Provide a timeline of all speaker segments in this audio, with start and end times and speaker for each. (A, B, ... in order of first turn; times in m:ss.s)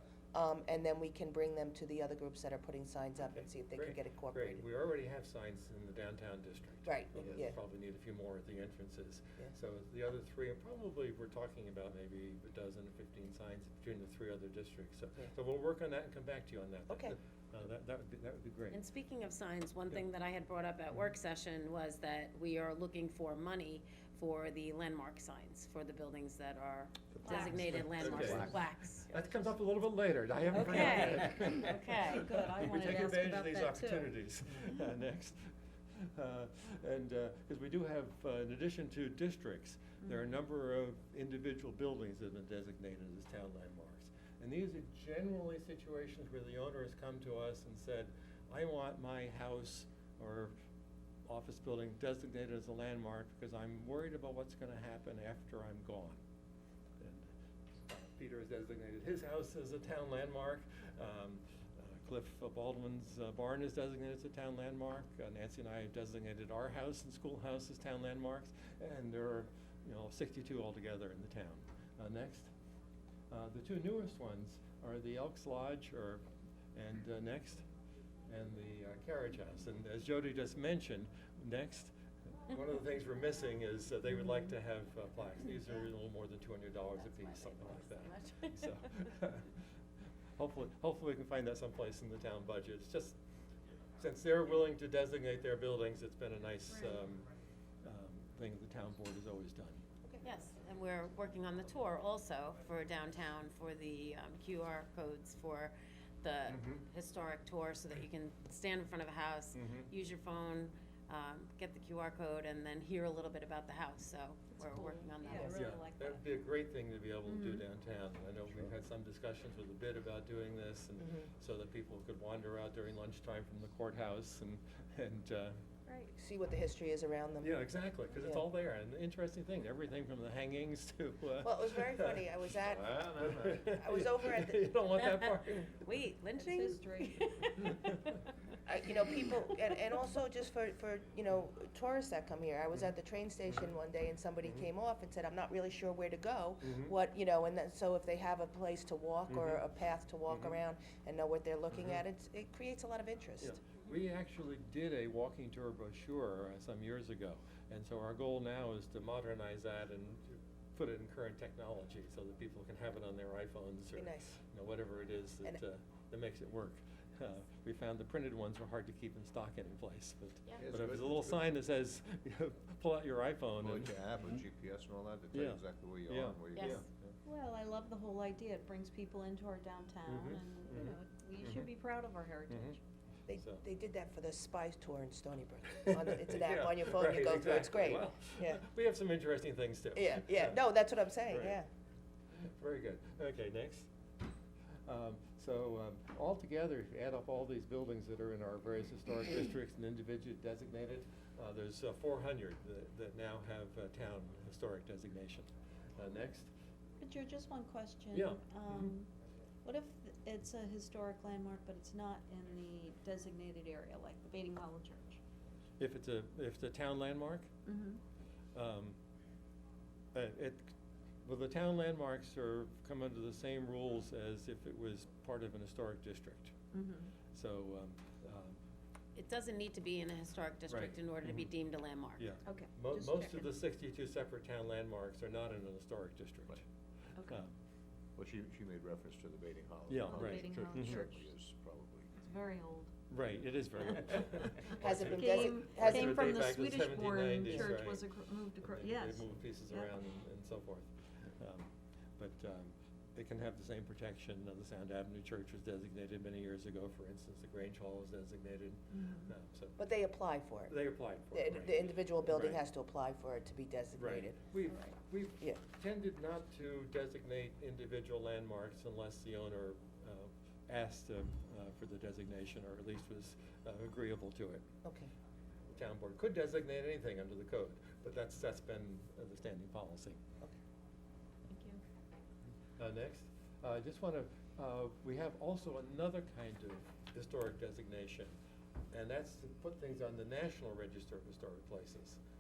0:00.3-0:04.6 A
0:03.4-0:18.8 B
0:06.9-0:07.6 A
0:16.9-0:17.2 A
0:18.7-0:29.4 C
0:27.2-0:27.9 D
0:27.3-0:28.6 E
0:27.7-0:50.5 B
0:30.5-0:32.4 C
0:30.5-0:34.8 D
0:40.0-0:40.3 D
0:51.3-0:56.2 B
0:57.0-0:57.3 B
0:57.9-1:12.5 B
1:13.3-1:16.2 B
1:16.8-1:17.6 B
1:18.3-1:21.9 B
1:22.5-1:29.6 B
1:27.0-1:28.8 C
1:30.4-1:33.2 B
1:34.0-1:37.3 B
1:36.7-1:37.0 D
1:37.8-1:39.8 B
1:40.2-1:55.7 C
1:46.5-1:46.8 B
1:49.5-1:49.9 B
1:54.6-1:56.2 D
1:55.4-2:05.6 B
1:57.3-1:57.7 D
2:01.0-2:01.3 A
2:05.9-2:06.2 D
2:06.2-2:07.6 A
2:07.4-2:15.7 B
2:11.4-2:14.6 A
2:12.8-2:13.5 E
2:15.0-2:18.2 C
2:16.4-2:17.3 D
2:18.7-2:33.6 A
2:26.6-2:26.9 B
2:29.3-2:29.6 B
2:30.3-2:30.6 B
2:31.7-2:32.0 B
2:33.4-2:54.4 B
2:44.0-2:44.4 A
2:50.6-2:51.4 E
2:53.6-2:56.8 E
2:55.3-2:57.1 B
2:56.6-2:56.8 C
2:57.2-3:02.8 D
3:00.0-3:01.7 B
3:02.5-3:02.8 B
3:03.3-3:08.6 A
3:03.4-3:03.6 B
3:05.9-3:10.6 B
3:10.0-3:11.7 A
3:11.3-3:11.6 B
3:12.4-3:13.9 B
3:14.9-3:26.5 B
3:27.0-3:29.1 D
3:28.1-3:29.0 B
3:29.6-3:35.2 D
3:35.8-3:37.5 B
3:37.7-3:38.0 D
3:38.6-3:39.0 B
3:40.1-3:40.7 B
3:41.2-3:46.6 B
3:46.7-3:47.1 D
3:47.3-3:48.6 B
3:49.2-3:52.3 C
3:50.7-3:51.5 B
3:52.2-3:56.6 B
3:52.4-3:53.5 D
3:57.2-3:57.5 B
3:58.2-4:02.2 E
3:59.9-4:01.1 B
4:00.0-4:01.3 D
4:02.2-4:02.9 D
4:03.1-4:08.1 B
4:03.7-4:10.0 D
4:04.7-4:06.5 A
4:08.6-4:19.8 B
4:18.9-4:19.3 D
4:19.8-4:20.7 A
4:20.7-4:22.6 B
4:21.3-4:24.4 A
4:24.0-4:34.6 B
4:24.7-4:25.0 D
4:34.8-4:35.1 A
4:35.7-4:40.2 B
4:41.5-4:41.8 D
4:42.8-4:48.4 B
4:48.9-4:52.2 B